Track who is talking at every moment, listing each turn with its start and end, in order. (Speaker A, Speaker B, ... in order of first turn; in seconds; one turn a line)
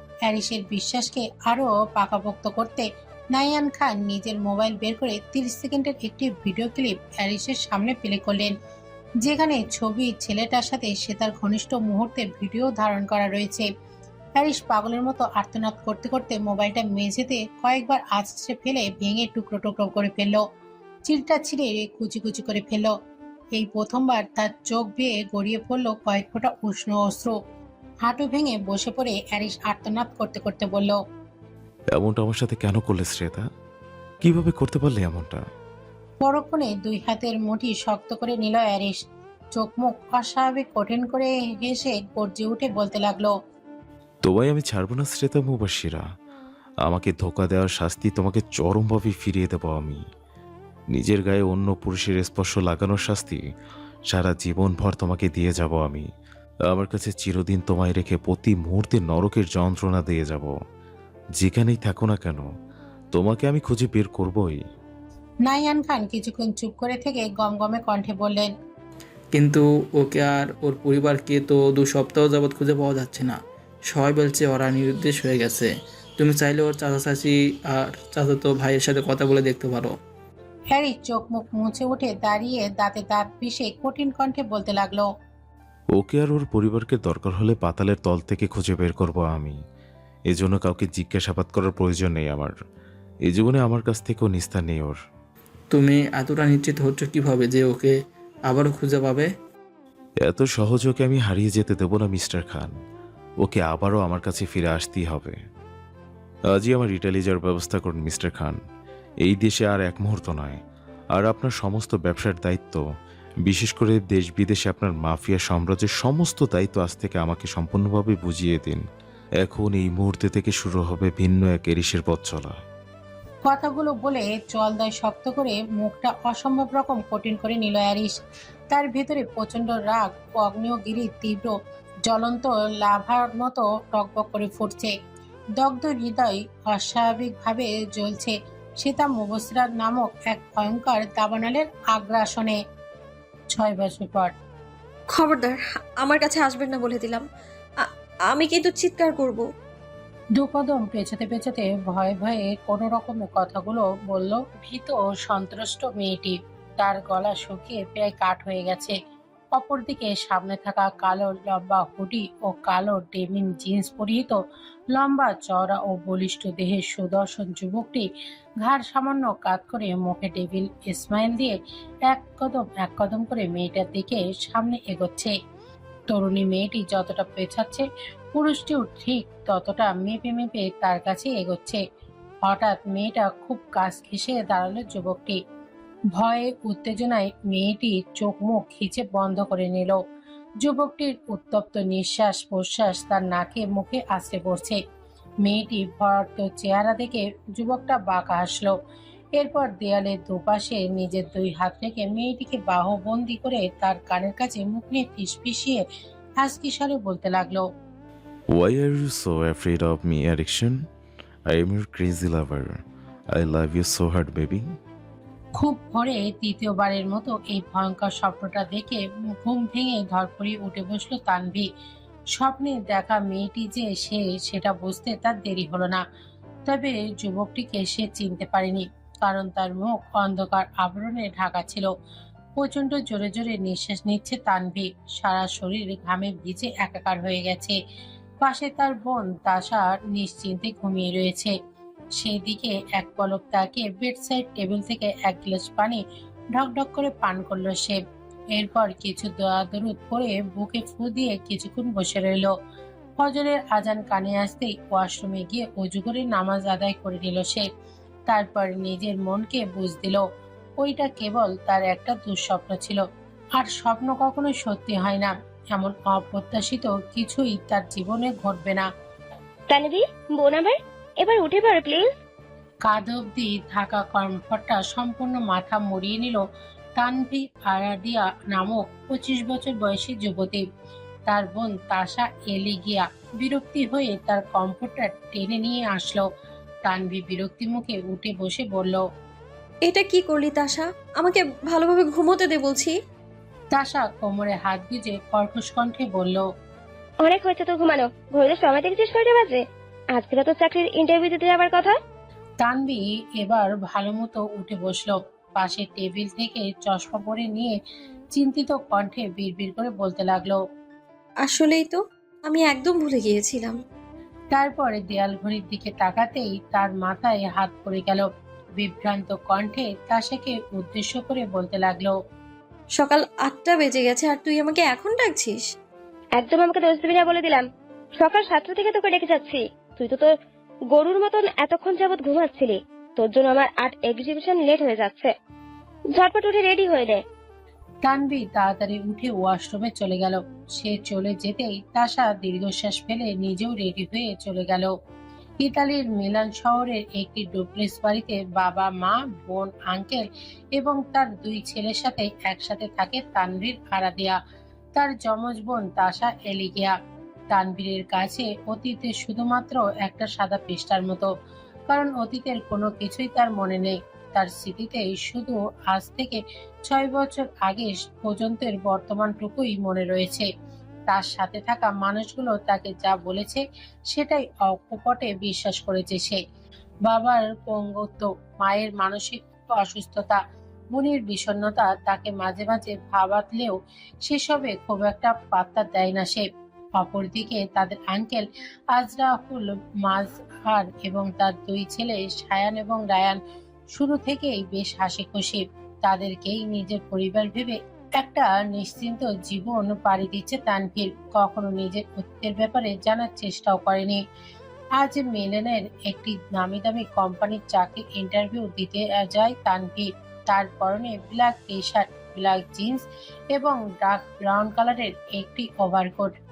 Speaker A: 0.2-8.5
Speaker A: 9.2-13.7
Speaker A: 14.4-20.4
Speaker A: 21.1-22.9
Speaker A: 23.5-27.4
Speaker A: 28.0-31.0
Speaker B: 31.9-33.4
Speaker B: 34.2-35.4
Speaker A: 36.2-39.0
Speaker A: 39.5-43.3
Speaker B: 44.2-46.0
Speaker B: 46.8-50.0
Speaker B: 50.9-53.4
Speaker B: 54.1-56.0
Speaker B: 56.7-60.5
Speaker B: 61.4-62.5
Speaker B: 63.1-64.6
Speaker A: 65.5-68.5
Speaker C: 69.3-73.3
Speaker C: 73.9-79.9
Speaker A: 80.7-85.1
Speaker B: 85.9-89.6
Speaker B: 90.3-92.5
Speaker B: 93.2-95.0
Speaker C: 95.7-98.0
Speaker C: 98.5-99.3
Speaker B: 100.2-102.7
Speaker B: 103.4-105.4
Speaker B: 106.5-108.6
Speaker B: 109.2-110.6
Speaker B: 111.1-112.8
Speaker B: 113.4-118.8
Speaker B: 119.4-122.6
Speaker A: 123.5-128.2
Speaker A: 128.7-131.5
Speaker A: 132.1-134.9
Speaker A: 135.6-142.6
Speaker A: 143.5-144.3
Speaker D: 145.1-147.2
Speaker D: 147.8-149.4
Speaker A: 150.3-158.9
Speaker A: 159.5-164.4
Speaker A: 164.9-168.1
Speaker A: 168.6-171.5
Speaker A: 172.1-175.3
Speaker A: 176.1-181.8
Speaker A: 182.4-185.4
Speaker A: 186.1-190.0
Speaker A: 190.6-194.8
Speaker A: 195.4-198.7
Speaker A: 199.3-205.8
Speaker A: 206.4-207.7
Speaker B: 208.5-210.8
Speaker B: 211.5-212.8
Speaker B: 213.3-214.7
Speaker A: 215.6-221.7
Speaker A: 222.3-226.0
Speaker A: 226.7-231.9
Speaker A: 232.6-237.8
Speaker A: 238.4-241.5
Speaker A: 242.2-246.0
Speaker A: 246.5-248.0
Speaker A: 248.5-252.5
Speaker A: 253.2-257.6
Speaker A: 258.3-260.2
Speaker A: 260.8-263.0
Speaker A: 263.6-268.9
Speaker E: 269.7-272.1
Speaker A: 272.8-276.4
Speaker A: 277.0-280.6
Speaker A: 281.3-286.2
Speaker A: 286.9-289.0
Speaker D: 289.9-292.9
Speaker A: 293.7-296.4
Speaker E: 297.2-299.6
Speaker E: 300.1-301.9
Speaker A: 302.6-307.8
Speaker A: 308.3-310.6
Speaker D: 311.4-313.8
Speaker A: 314.5-318.3
Speaker A: 318.8-322.1
Speaker D: 323.0-325.6
Speaker E: 326.4-327.6
Speaker E: 328.2-330.3
Speaker E: 330.9-335.3
Speaker E: 336.1-337.2
Speaker A: 338.0-344.9
Speaker A: 345.6-350.2
Speaker A: 350.8-354.4
Speaker A: 354.9-356.9
Speaker A: 357.5-361.3
Speaker A: 361.9-370.5
Speaker A: 371.1-376.4
Speaker A: 377.1-380.4
Speaker A: 380.9-386.4
Speaker A: 387.0-393.4
Speaker A: 393.9-404.2
Speaker A: 405.0-413.0
Speaker A: 413.5-416.4